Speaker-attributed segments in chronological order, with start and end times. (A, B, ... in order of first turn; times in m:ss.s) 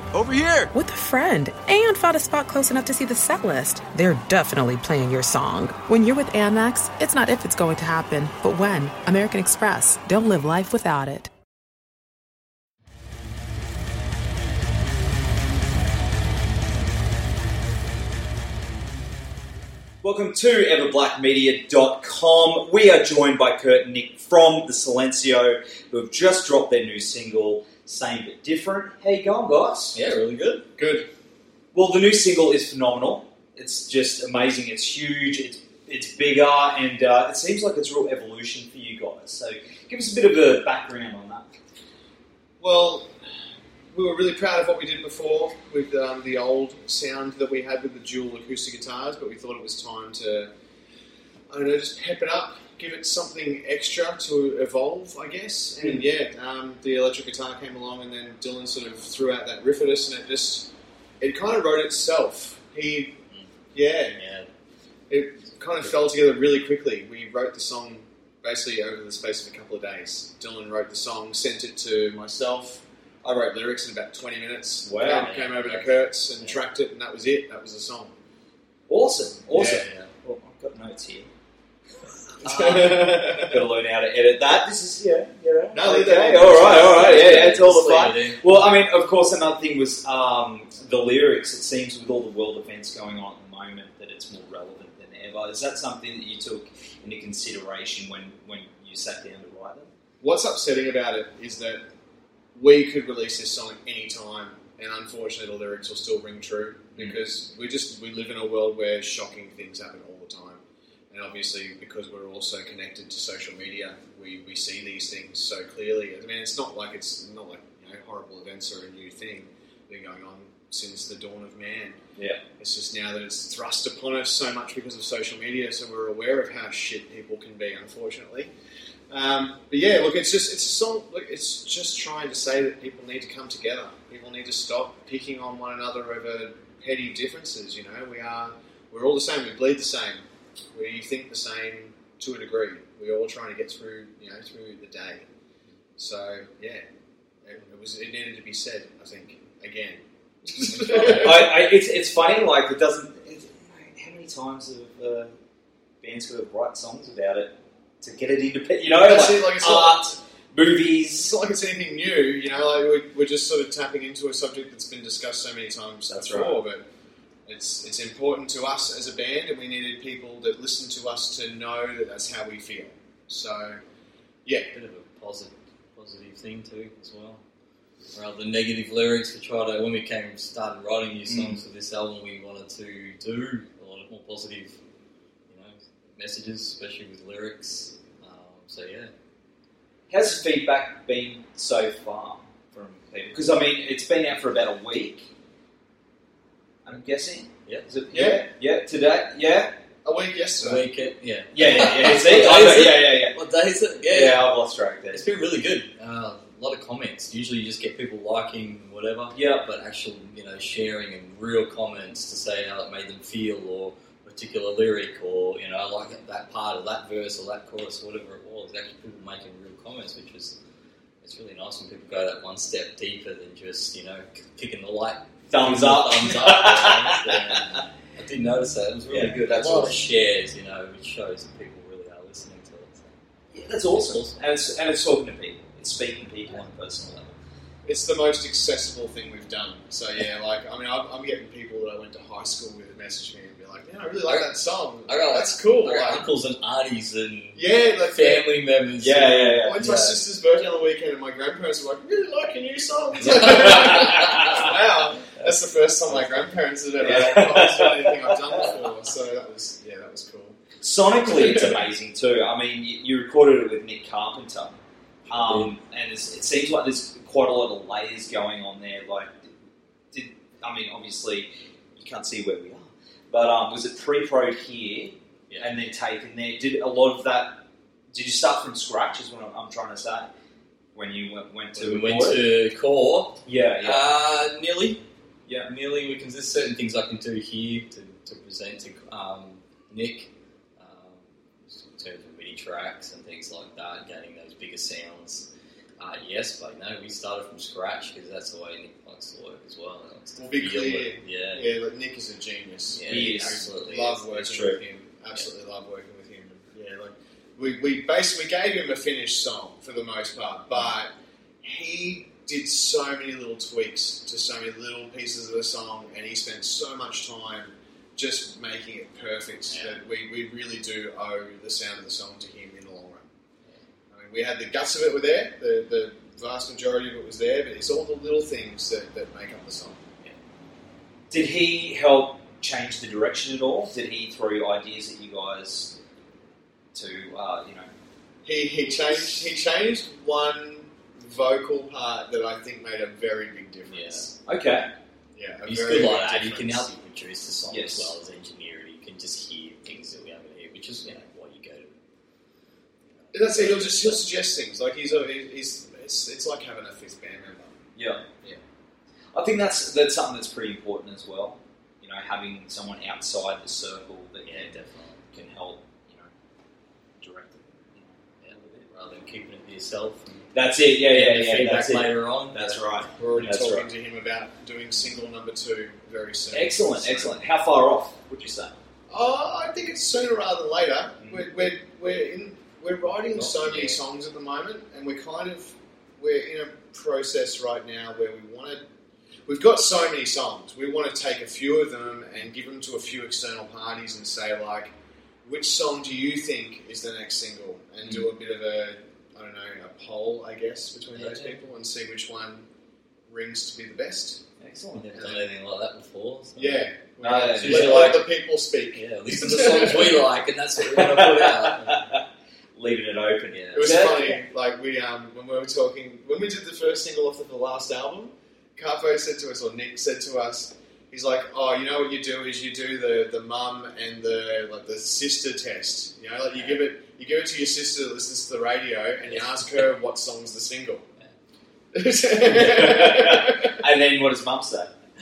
0:00.8-0:11.3 A
0:20.0-0:30.0 B
0:29.9-0:30.7 C
0:30.8-0:31.1 D
0:31.7-0:41.5 B
0:42.6-0:43.1 D
0:43.9-0:50.5 D
0:51.5-1:03.2 D
0:55.8-0:56.0 B
1:03.7-1:04.2 D
1:04.1-1:04.5 C
1:05.1-1:18.1 D
1:14.8-1:15.3 B
1:15.1-1:16.6 C
1:18.9-1:21.3 B
1:19.5-1:19.8 D
1:19.6-1:20.1 C
1:22.4-1:23.6 D
1:22.4-1:39.9 B
1:25.7-1:27.6 D
1:26.4-1:28.6 C
1:40.2-1:41.8 D
1:42.5-2:02.0 D
2:02.2-2:02.4 B
2:02.6-2:08.5 D
2:09.1-2:25.3 D
2:26.0-2:26.8 D
2:27.4-2:31.5 D
2:30.7-2:31.5 C
2:30.9-2:35.3 B
2:36.0-2:41.3 B
2:39.0-2:40.0 D
2:41.2-2:46.8 D
2:46.1-2:46.6 B
2:47.5-2:53.8 D
2:54.4-2:54.7 D
2:54.7-2:57.4 C
2:58.1-3:04.8 C
3:01.3-3:01.6 B
3:05.5-3:09.1 C
3:10.1-3:15.3 B
3:16.8-3:19.7 B
3:18.1-3:18.4 D
3:20.0-3:20.9 D
3:20.6-3:24.5 C
3:21.5-3:23.4 B
3:24.0-3:25.2 B
3:25.1-3:40.6 C
3:29.3-3:29.7 B
3:41.2-3:53.2 C
3:45.5-3:47.4 B
3:49.1-3:50.1 B
3:53.5-3:57.4 B
3:53.9-3:54.8 C
3:57.8-4:06.3 D
4:04.2-4:10.2 C
4:07.5-4:08.5 D
4:09.0-4:09.8 B
4:09.6-4:20.6 D
4:13.2-4:14.5 C
4:13.3-4:14.5 B
4:16.1-4:16.6 C
4:17.0-4:18.7 B
4:20.8-4:24.8 B
4:21.2-4:21.8 D
4:25.3-4:25.8 C
4:25.3-4:29.5 B
4:30.1-4:37.6 B
4:35.5-4:35.7 C
4:38.1-4:40.3 B
4:40.9-4:42.4 B
4:41.7-4:45.0 C
4:43.4-4:44.1 B
4:45.6-5:01.7 C
5:00.4-5:23.3 D
5:02.9-5:04.3 C
5:03.0-5:03.7 B
5:04.3-5:04.8 B
5:19.7-5:20.0 C
5:24.1-5:30.0 D
5:31.3-5:35.9 B
5:36.9-5:37.9 B
5:38.4-5:44.3 D
5:43.9-5:44.3 C
5:44.4-5:44.9 B
5:45.3-5:46.9 D
5:45.6-5:52.0 C
5:47.7-5:48.1 B
5:53.1-5:54.3 C
5:53.3-5:57.7 D
5:58.0-5:58.2 B
5:59.3-6:04.8 B
6:04.4-6:05.2 C
6:05.3-6:06.3 B
6:07.2-6:08.2 B
6:08.4-6:10.5 C
6:10.5-6:13.9 B
6:11.1-6:12.9 C
6:13.2-6:17.4 D
6:16.5-6:18.7 B
6:19.1-6:28.8 D
6:21.2-6:21.4 B
6:23.3-6:24.0 C
6:29.5-6:34.9 D
6:35.4-6:42.6 D
6:41.1-6:41.6 C
6:43.3-6:44.4 D
6:44.6-6:45.1 B
6:45.0-6:46.9 C
6:45.1-6:45.5 D
6:46.5-6:50.3 D
6:47.2-6:48.2 B
6:47.5-6:48.3 C
6:48.9-6:52.0 C
6:50.9-6:52.2 B
6:52.7-6:54.4 B
6:53.5-6:54.0 C
6:53.7-7:11.0 D
7:06.5-7:06.8 C
7:09.3-7:09.9 C
7:11.9-7:13.8 D
7:12.5-7:14.9 B